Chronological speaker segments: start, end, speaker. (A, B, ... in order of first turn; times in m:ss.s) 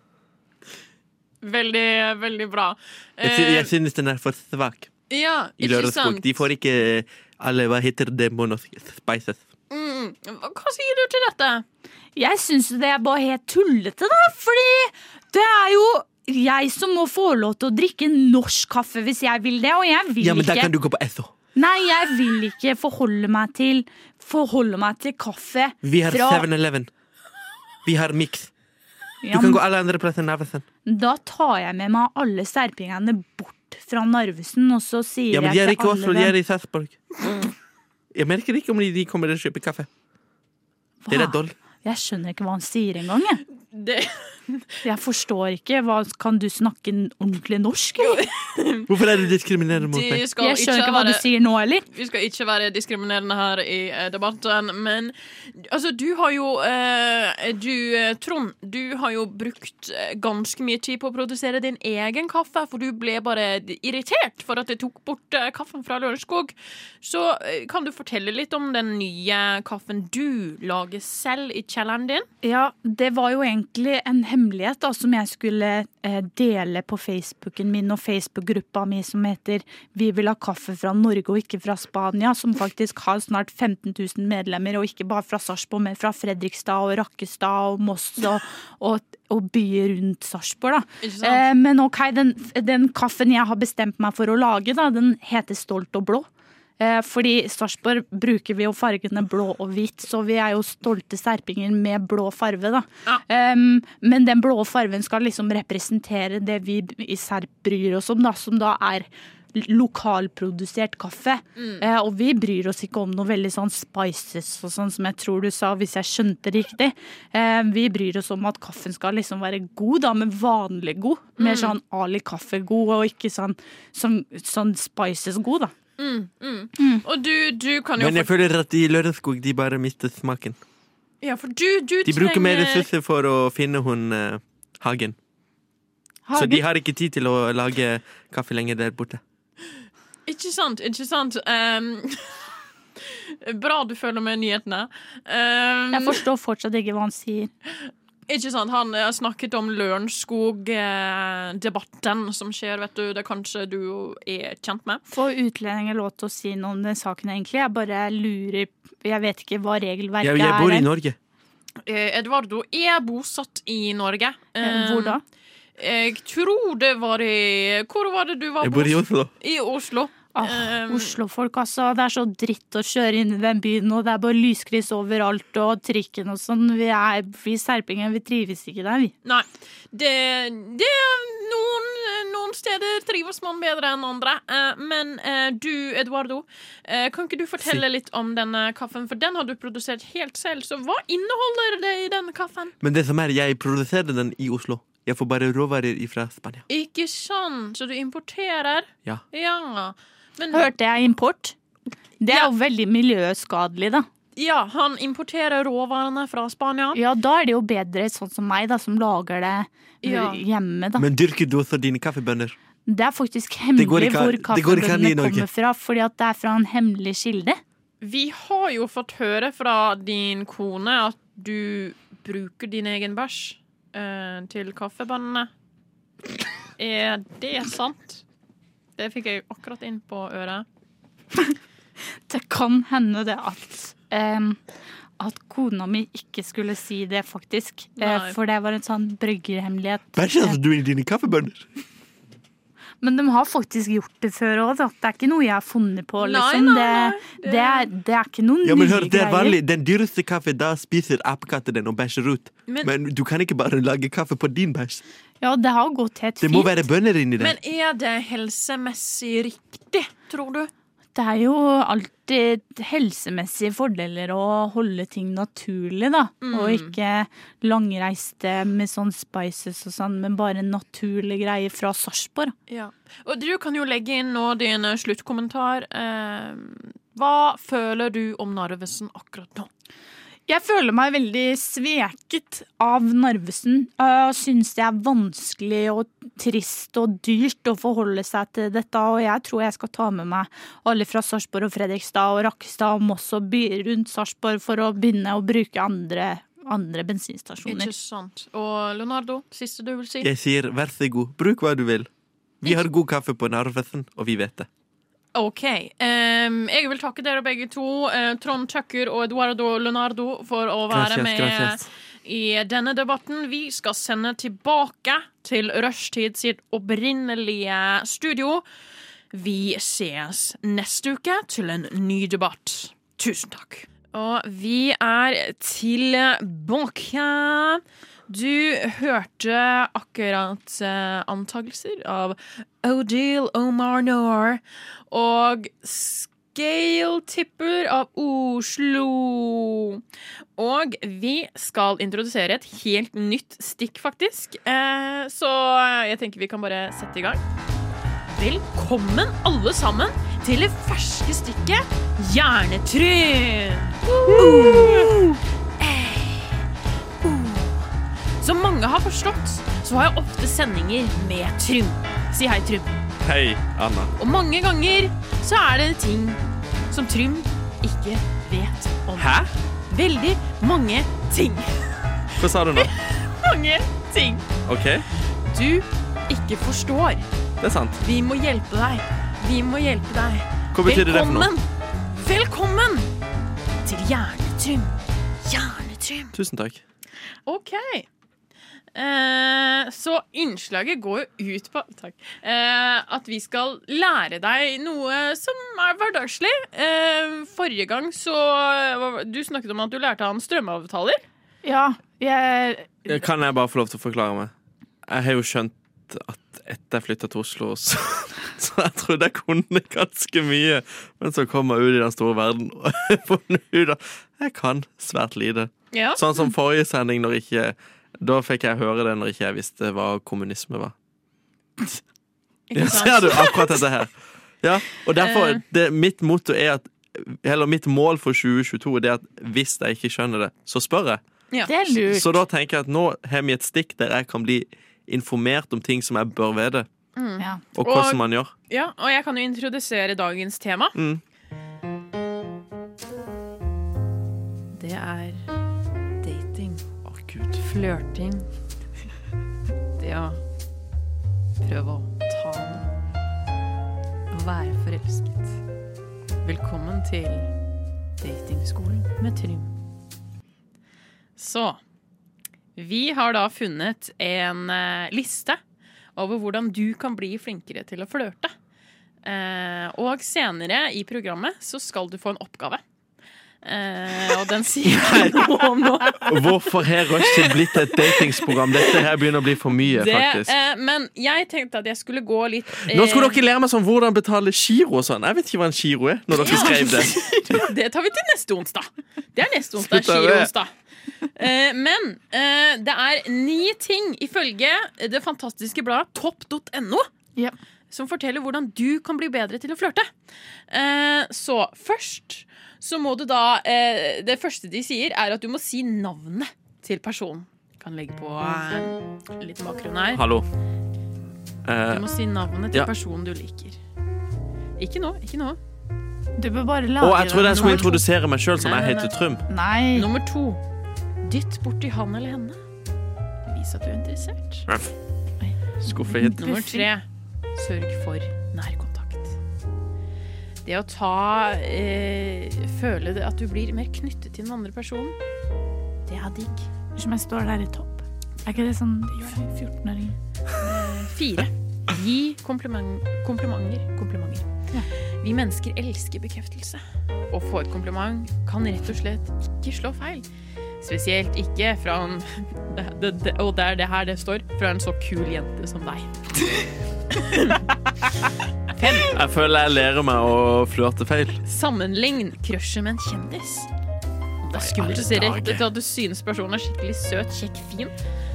0:01.4-0:03.7 A
0:03.2-0:04.9 B
0:05.1-0:06.4 A
0:05.6-0:09.4 B
0:09.7-0:11.6 A
0:12.2-0:20.7 C
0:20.2-0:21.3 B
0:21.5-0:26.5 C
0:25.8-0:26.9 B
0:27.8-0:28.5 B
0:29.2-0:29.6 C
0:29.3-0:30.6 B
0:30.8-0:36.3 C
0:35.3-0:37.0 B
0:38.1-0:39.9 B
0:41.0-0:43.4 C
0:41.1-0:41.6 B
0:43.6-0:44.6 A
0:44.8-0:48.2 C
0:48.0-0:48.9 A
0:48.9-0:50.2 B
0:49.8-0:51.2 A
0:50.4-0:51.8 C
0:51.9-1:12.3 A
1:12.4-1:36.3 C
1:31.0-1:31.4 A
1:36.8-2:05.7 C
1:51.6-1:51.8 A
2:01.4-2:01.7 A
2:06.0-2:08.3 A
2:06.8-2:07.0 C
2:08.0-2:10.6 B
2:11.2-2:12.9 A
2:12.0-2:15.2 B
2:16.3-2:16.6 C
2:16.3-2:19.2 B
2:20.2-2:22.4 A
2:23.0-2:26.2 A
2:25.9-2:27.5 C
2:28.3-2:35.0 A
2:35.1-2:40.9 C
2:40.2-2:41.2 B
2:41.8-2:45.2 A
2:44.6-2:45.2 C
2:45.8-2:51.2 A
2:48.6-2:49.3 B
2:50.3-2:59.1 C
2:59.2-3:12.7 A
3:12.8-3:16.6 B
3:16.7-3:20.7 A
3:20.5-3:21.6 C
3:22.2-3:24.1 C
3:24.4-3:27.0 A
3:26.9-3:31.1 C
3:30.0-3:30.4 A
3:31.0-3:32.5 B
3:32.9-3:37.6 C
3:33.8-3:35.5 B
3:38.0-3:45.5 A
3:46.8-3:48.2 A
3:49.0-3:50.6 A
3:52.3-3:54.6 C
3:55.2-4:00.6 C
3:58.0-3:58.4 A
4:00.2-4:01.6 B
4:03.0-4:09.6 C
4:06.2-4:07.9 A
4:08.6-4:15.0 B
4:15.4-4:16.8 C
4:16.4-4:17.6 B
4:17.4-4:20.7 A
4:21.1-4:32.5 C
4:26.4-4:27.0 A
4:32.7-4:39.7 A
4:40.5-4:57.9 C
4:57.6-5:00.3 A
5:00.2-5:02.1 B
5:02.6-5:04.7 B
5:05.3-5:18.6 A
5:10.9-5:11.8 B
5:19.3-5:40.0 A
5:40.6-5:47.4 A
5:48.3-5:55.2 A
5:54.4-5:55.3 B
5:55.8-5:56.6 A
5:57.2-5:57.9 A
5:58.4-6:03.0 A
6:03.2-6:04.1 B
6:04.2-6:14.4 A
6:09.2-6:09.5 B
6:12.4-6:12.9 B
6:14.6-6:15.0 B
6:15.5-6:17.2 A
6:17.6-6:18.0 B
6:18.0-6:23.1 A
6:20.7-6:21.5 B
6:23.8-6:26.3 A
6:26.3-6:26.8 B
6:27.4-6:28.1 A
6:28.9-6:41.2 A
6:41.6-6:43.1 C
6:43.0-6:44.5 B
6:45.1-7:00.9 B
6:55.9-6:56.2 A
7:02.7-7:03.8 A
7:02.7-7:11.2 B
7:05.2-7:05.6 A
7:11.7-7:12.4 C
7:12.0-7:16.9 B
7:17.2-7:21.0 A
7:17.7-7:18.5 B
7:21.0-7:21.2 B
7:24.7-7:25.4 A
7:26.2-7:26.9 A
7:27.0-7:27.6 B
7:27.5-7:28.5 A
7:30.0-7:30.4 A
7:31.6-7:32.8 A
7:34.3-7:35.6 A
7:36.4-7:37.5 A
7:38.2-7:39.7 A
7:41.4-7:41.8 A
7:42.8-7:45.6 A
7:46.1-7:48.5 A
7:49.2-7:52.8 A
7:53.6-7:56.5 A
7:55.0-7:55.4 B
7:56.2-8:00.5 B
7:57.2-7:59.0 A
7:59.8-8:03.4 A
8:02.8-8:07.6 B
8:06.4-8:10.7 A
8:06.6-8:07.6 C
8:09.7-8:10.5 B
8:11.2-8:17.1 A
8:17.9-8:20.1 A
8:20.7-8:30.2 A
8:30.1-8:30.4 B
8:31.6-8:32.1 B
8:31.9-8:33.8 A
8:34.8-8:35.6 A
8:36.4-8:38.0 C
8:37.0-8:39.4 B
8:38.6-8:39.1 A
8:39.5-8:40.1 C
8:39.9-8:40.6 A
8:41.2-8:42.6 A
8:43.4-8:44.7 A
8:45.4-8:46.9 C
8:45.8-8:46.4 B
8:46.4-8:49.4 A
8:50.6-8:55.2 A
8:56.1-8:56.7 A
8:57.0-9:00.2 C
9:00.6-9:04.5 A
9:05.2-9:10.2 A
9:10.8-9:16.1 A
9:17.1-9:17.6 A
9:18.7-9:19.2 A
9:19.0-9:21.4 B
9:21.4-9:23.7 A
9:24.4-9:27.9 A
9:24.5-9:25.7 B